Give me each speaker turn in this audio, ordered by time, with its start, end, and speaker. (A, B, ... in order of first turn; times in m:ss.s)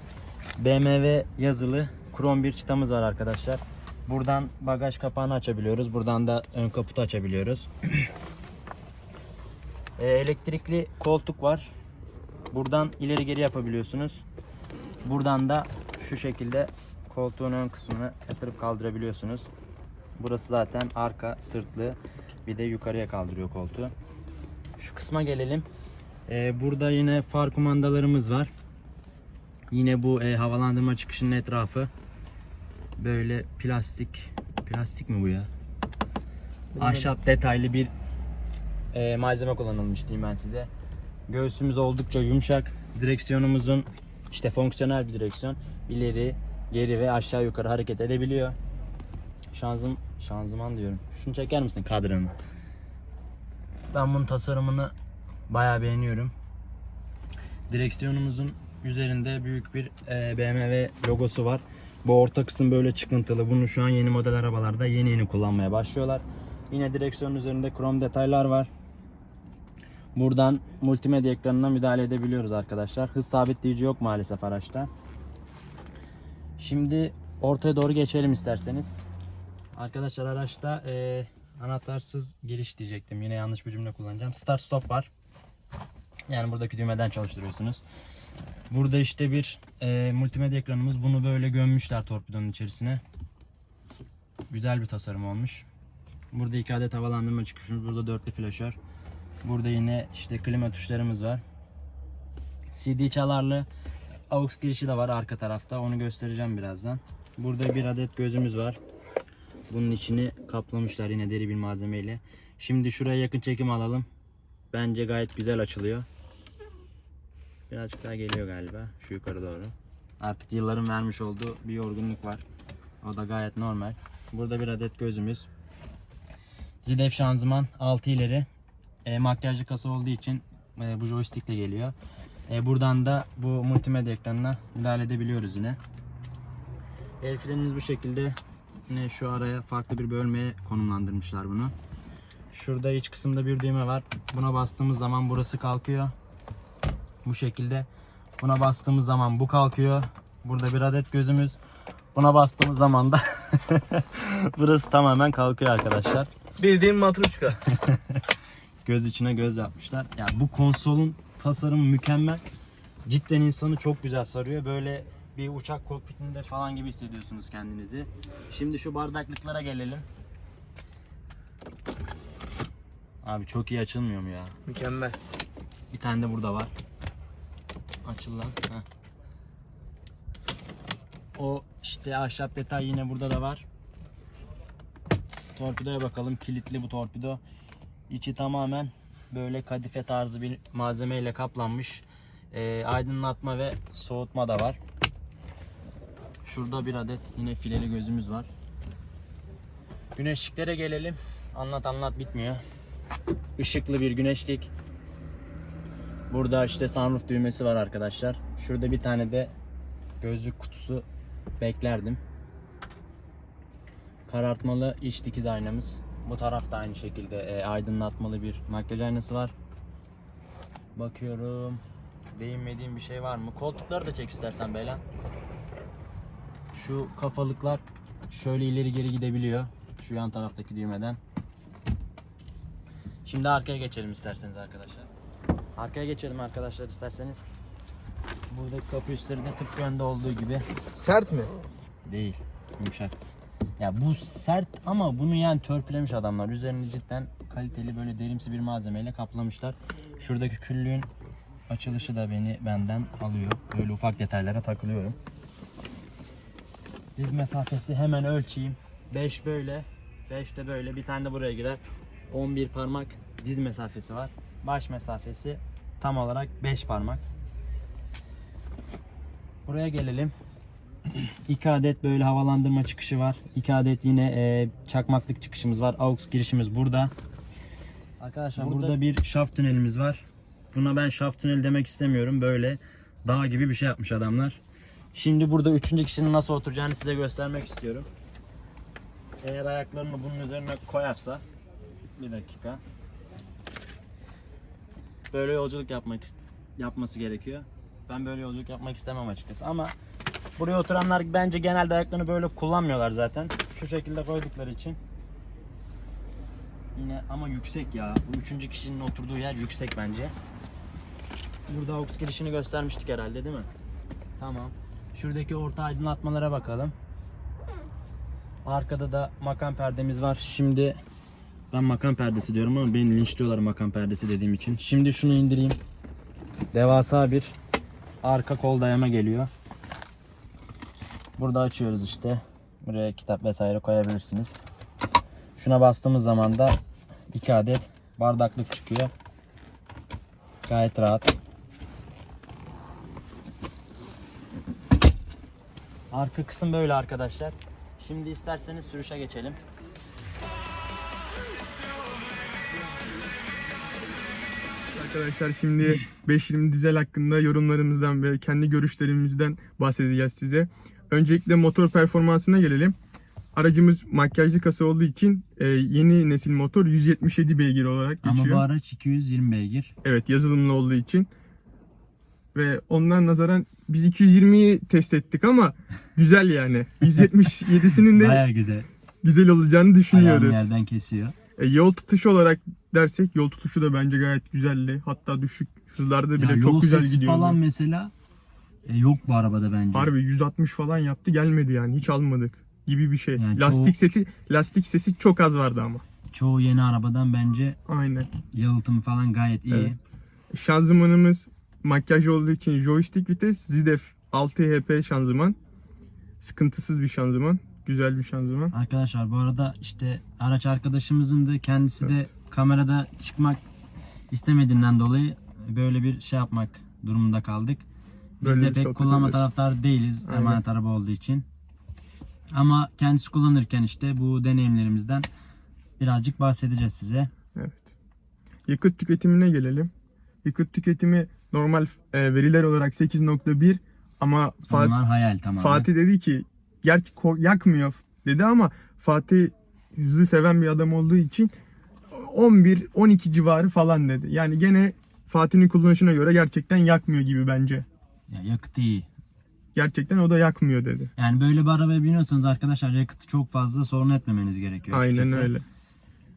0:00.6-0:07.7 A
0:10.0-0:11.7 A
0:12.5-0:14.2 A
0:15.0-0:19.5 A
0:20.2-0:23.9 A
0:24.8-0:25.7 A
0:26.3-0:28.5 A
0:29.7-0:31.9 A
0:33.0-0:35.5 A
0:36.7-0:37.1 B
0:36.8-0:37.9 A
0:38.9-0:40.7 A
0:41.3-0:48.6 A
0:49.5-0:52.3 A
0:53.9-0:54.9 A
0:55.5-0:56.3 A
0:57.7-1:08.7 A
1:10.1-1:14.9 A
1:16.6-1:19.0 A
1:19.7-1:25.1 A
1:26.3-1:27.8 A
1:28.7-1:33.0 A
1:34.5-1:35.7 A
1:36.3-1:38.8 A
1:39.4-1:41.4 A
1:42.7-1:43.7 A
1:44.3-1:48.8 A
1:49.7-1:54.1 A
1:54.7-1:56.1 A
1:57.7-2:02.4 A
2:03.0-2:05.5 A
2:06.8-2:08.5 A
2:09.0-2:11.9 A
2:12.5-2:15.8 A
2:17.2-2:21.7 A
2:22.5-2:26.1 A
2:27.2-2:27.9 A
2:28.4-2:31.6 A
2:32.1-2:36.5 A
2:36.6-2:37.6 B
2:37.7-2:38.2 A
2:38.8-2:42.4 A
2:43.0-2:50.1 A
2:53.2-2:54.6 A
2:54.7-2:55.1 C
2:54.8-2:55.1 B
2:55.9-2:56.7 A
2:58.0-2:58.8 A
3:01.4-3:03.6 A
3:05.5-3:07.4 A
3:08.1-3:14.8 A
3:16.4-3:18.5 A
3:20.1-3:22.6 A
3:23.6-3:24.7 A
3:26.3-3:29.5 A
3:30.2-3:31.0 A
3:31.6-3:32.2 A
3:34.3-3:39.5 A
3:40.9-3:45.0 A
3:46.7-3:51.2 A
3:53.2-3:55.1 A
3:55.8-3:57.4 A
3:58.5-4:00.6 A
4:01.0-4:01.5 B
4:02.0-4:03.2 A
4:03.8-4:11.1 A
4:11.7-4:15.2 A
4:17.2-4:27.2 A
4:29.6-4:30.3 A
4:31.1-4:37.1 A
4:38.2-4:44.6 A
4:45.1-4:48.1 A
4:49.4-4:51.4 A
4:52.2-4:52.8 A
4:55.3-4:59.9 A
5:00.6-5:05.0 A
5:06.9-5:10.3 A
5:11.7-5:13.7 A
5:14.4-5:16.9 A
5:18.6-5:21.0 A
5:21.7-5:25.8 A
5:26.7-5:27.5 A
5:28.2-5:29.5 A
5:31.4-5:34.6 A
5:35.6-5:36.8 A
5:37.3-5:39.1 A
5:40.6-5:41.3 A
5:46.1-5:49.6 A
5:54.9-6:03.0 C
6:03.5-6:08.6 C
6:08.2-6:09.9 A
6:10.0-6:11.3 C
6:12.5-6:18.4 C
6:18.0-6:18.9 A
6:19.2-6:20.7 C
6:20.1-6:21.3 A
6:21.6-6:27.6 C
6:26.4-6:28.1 A
6:28.8-6:30.1 A
6:29.9-6:36.0 C
6:33.4-6:34.0 A
6:36.3-6:37.8 A
6:37.9-6:38.3 C
6:38.5-6:40.0 A
6:39.7-6:40.0 C
6:40.5-6:45.6 C
6:46.4-6:48.7 C
6:48.7-6:53.6 A
6:54.3-6:57.8 A
6:58.4-7:01.4 A
6:58.4-6:59.4 C
7:00.2-7:00.6 C
7:02.5-7:05.3 A
7:06.0-7:07.3 A
7:07.5-7:07.9 C
7:08.7-7:09.9 C
7:10.4-7:14.9 C
7:14.7-7:15.9 A
7:15.6-7:21.5 C
7:22.1-7:27.8 C
7:28.3-7:29.1 A
7:29.7-7:31.1 C
7:31.2-7:35.5 A
7:34.9-7:35.6 C